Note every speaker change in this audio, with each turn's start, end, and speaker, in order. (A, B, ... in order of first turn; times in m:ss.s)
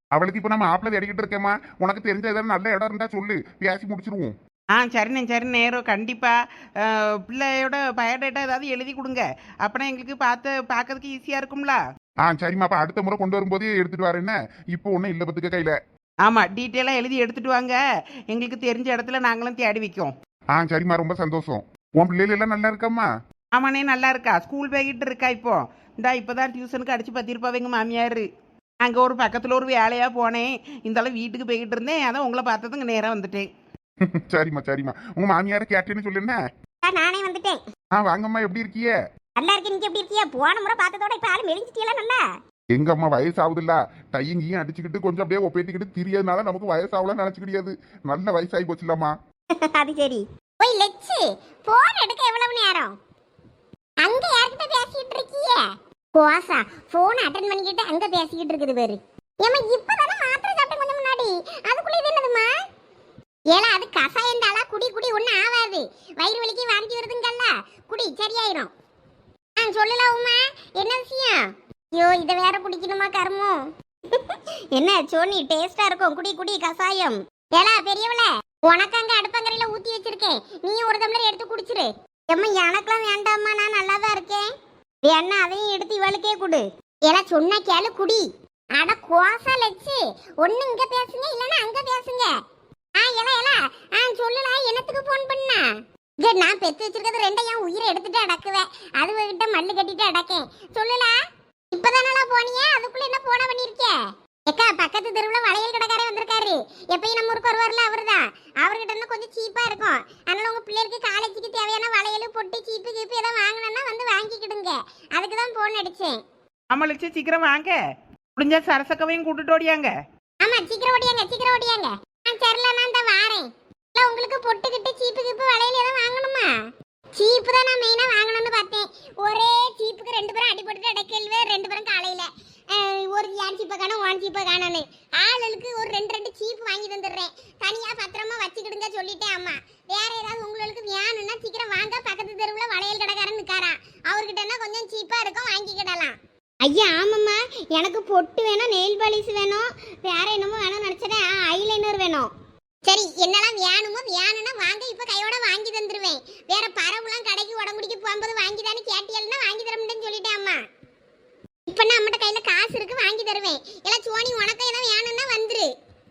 0:00.1-0:04.3 A
0:04.8-0:11.8 B
0:12.2-0:15.8 A
0:16.2-0:17.8 B
0:18.3-0:20.1 B
0:20.5-0:23.1 A
0:23.5-0:28.2 B
0:28.8-0:33.4 B
0:34.0-0:36.4 A
0:36.8-0:37.6 C
0:37.9-0:38.9 A
0:39.4-0:42.2 C
0:42.7-0:49.1 A
0:49.6-0:52.9 C
0:54.0-1:02.5 C
1:03.5-1:08.7 C
1:09.6-1:13.6 C
1:14.1-1:24.4 C
1:25.0-1:28.2 C
1:28.8-1:32.4 C
1:33.0-1:35.7 C
1:36.2-1:41.2 C
1:41.7-1:56.2 C
1:56.7-1:57.8 B
1:58.4-1:59.9 B
2:00.4-2:06.5 C
2:07.1-2:32.3 C
2:32.8-2:40.6 C
2:41.7-2:45.7 C